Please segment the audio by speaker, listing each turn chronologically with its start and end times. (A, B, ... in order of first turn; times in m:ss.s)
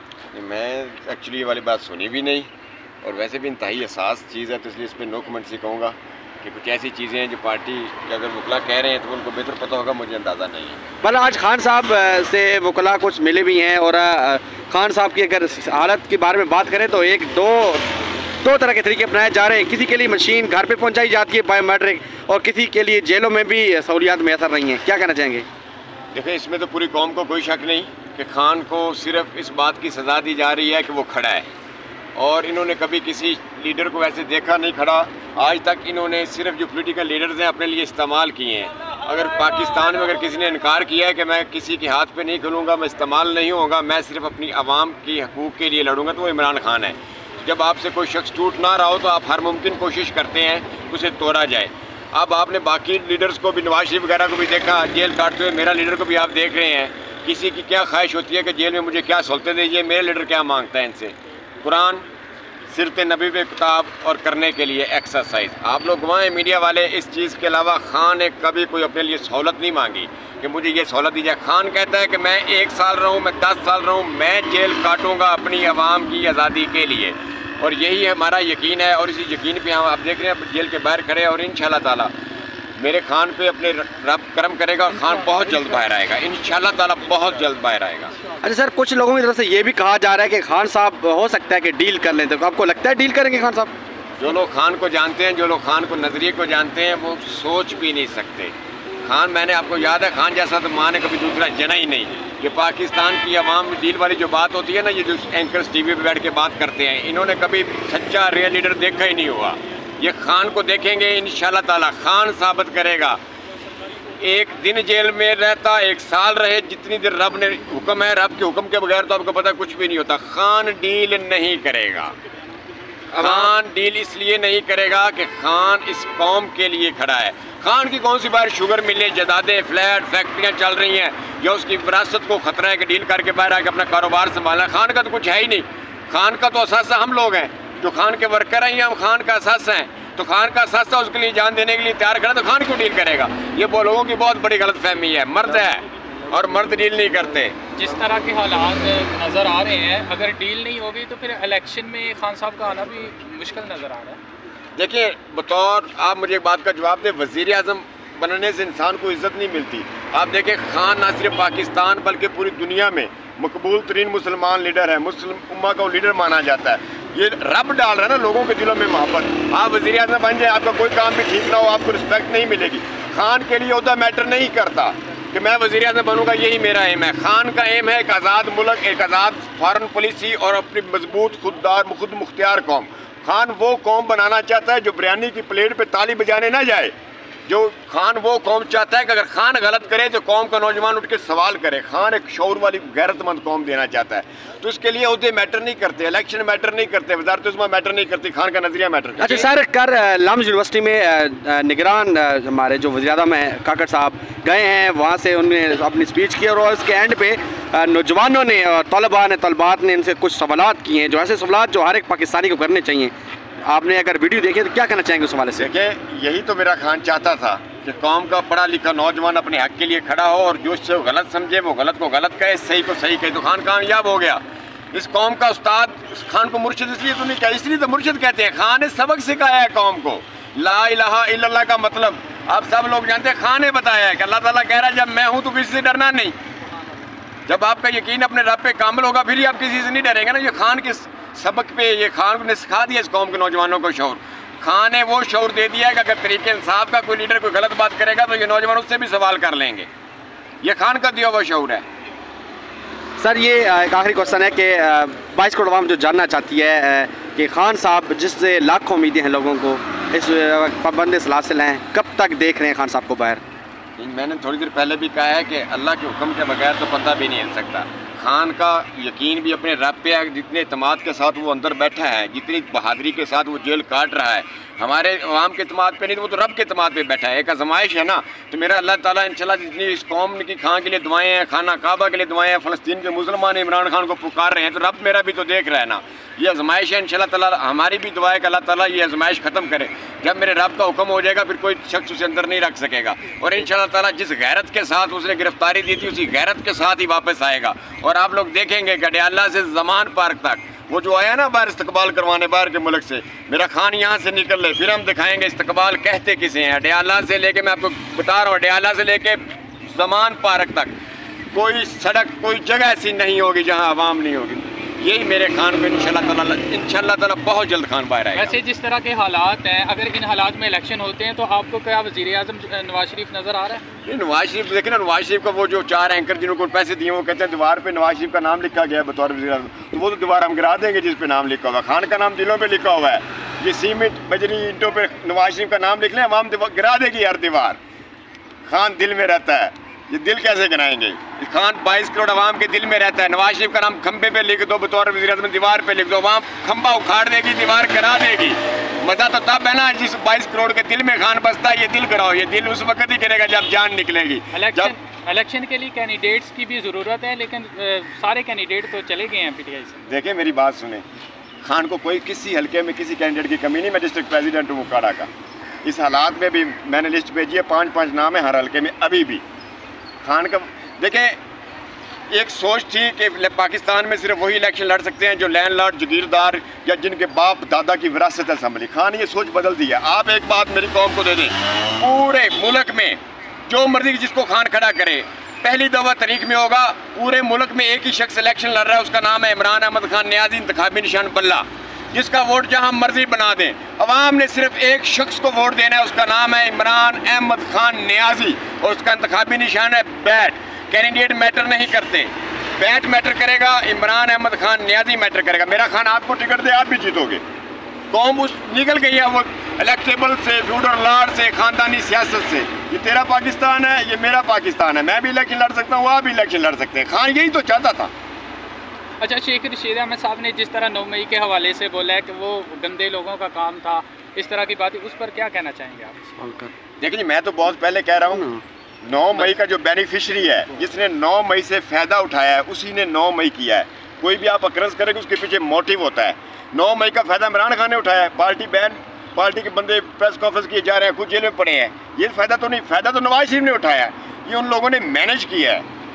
0:00.3-0:02.5 A
0:03.0-0:10.8 A
0:11.0-0:17.9 B
0:18.4-0:25.4 B
0:26.1-0:31.4 A
0:32.1-1:02.0 A
1:02.7-1:22.1 A
1:22.8-1:28.1 A
1:28.4-1:33.7 B
1:34.2-1:53.2 A
1:54.2-2:02.1 A
2:03.1-2:27.6 A
2:03.2-2:03.5 B
2:27.7-2:34.2 C
2:34.8-3:06.9 A
3:07.5-3:19.4 A
3:19.2-3:33.1 B
3:33.7-3:35.7 B
3:35.6-3:56.3 A
3:57.5-4:09.9 A
4:10.6-4:11.8 A
4:13.2-4:23.4 B
4:24.0-5:10.9 A
5:11.5-5:18.6 A
5:18.3-5:23.8 C
5:24.0-5:37.8 A
5:38.7-5:54.9 A
5:54.5-6:00.0 C
6:00.1-6:01.0 A
6:01.6-6:05.3 A
6:05.8-6:09.4 A
6:10.2-6:11.4 A
6:12.3-6:47.4 A
6:48.1-6:58.1 A
6:59.2-7:06.4 C
7:06.4-7:06.7 B
7:07.0-7:25.8 A